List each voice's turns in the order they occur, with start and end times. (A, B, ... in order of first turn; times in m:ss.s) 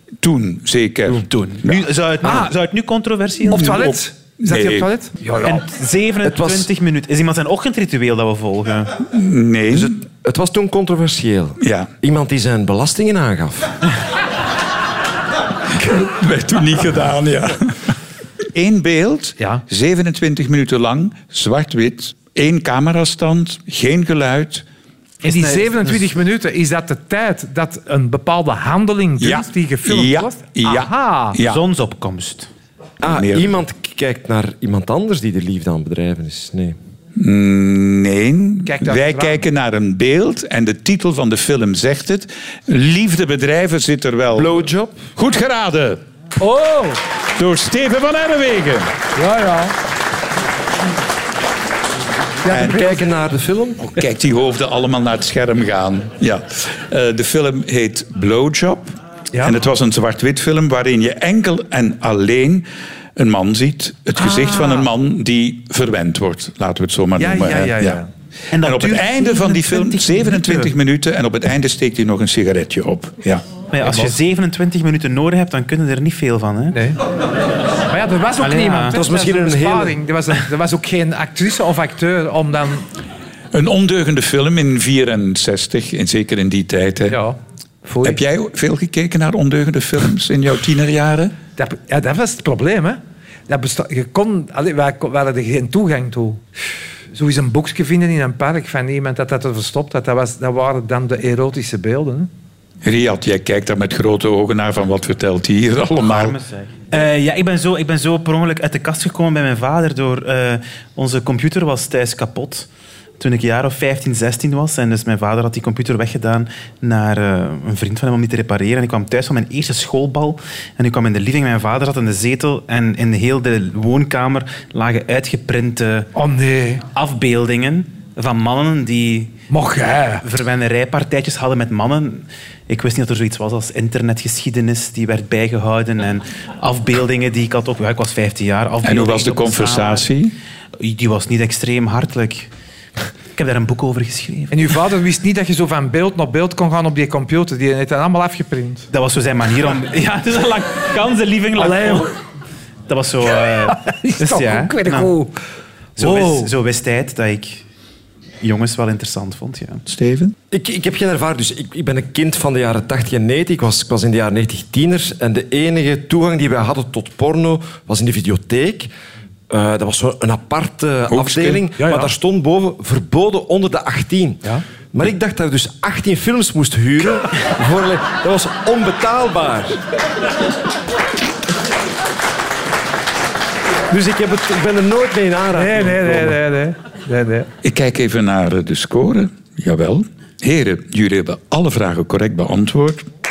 0:00.2-0:01.8 A
0:01.1-0:03.8 B
0:02.2-0:02.5 C
0:03.5-0:05.7 C
0:03.5-0:04.9 A
0:05.4-0:09.0 B
0:06.2-0:06.7 D
0:09.1-0:09.9 A
0:09.7-0:13.8 D
0:11.6-0:11.9 A
0:15.7-0:18.0 A
0:18.5-0:24.6 A
0:25.2-0:26.0 B
0:25.3-0:31.4 C
0:29.2-0:31.6 A
0:31.4-0:32.5 B
0:33.0-0:36.8 D
0:33.0-0:33.6 A
0:37.2-0:44.6 A
0:38.7-0:39.4 C
0:44.3-0:45.0 D
0:45.2-0:46.0 A
0:46.4-0:47.0 C
0:47.4-0:48.9 A
0:49.2-0:49.8 C
0:52.4-0:53.0 C
0:52.5-0:53.8 D
0:52.5-0:52.8 A
0:53.8-1:08.0 A
1:04.2-1:04.9 C
1:07.2-1:08.1 C
1:08.5-1:10.7 B
1:08.6-1:13.4 A
1:13.7-1:16.8 B
1:13.8-1:14.2 C
1:16.7-1:17.0 C
1:17.9-1:22.9 C
1:18.4-1:19.0 B
1:18.9-1:20.0 D
1:23.5-1:27.2 A
1:27.1-1:28.2 C
1:28.0-1:31.3 A
1:31.6-1:36.4 C
1:37.1-1:42.3 C
1:42.8-1:46.4 A
1:46.0-1:52.7 B
1:53.2-2:06.1 B
2:06.2-2:06.8 C
2:06.9-2:09.4 B
2:09.5-2:10.2 C
2:10.2-2:20.1 B
2:18.8-2:20.4 A
2:20.8-2:22.5 B
2:23.4-2:24.8 B
2:24.5-2:28.9 C
2:28.9-2:32.2 B
2:31.6-2:32.1 C
2:32.9-2:35.1 B
2:33.7-2:35.3 C
2:36.0-2:37.6 B
2:36.0-2:36.5 C
2:38.4-2:39.8 B
2:39.9-2:40.4 A
2:40.5-2:48.9 D
2:49.5-2:59.8 D
2:51.1-2:51.6 A
2:51.8-2:52.1 C
3:03.9-3:06.4 D
3:05.6-3:07.5 C
3:07.6-3:13.1 A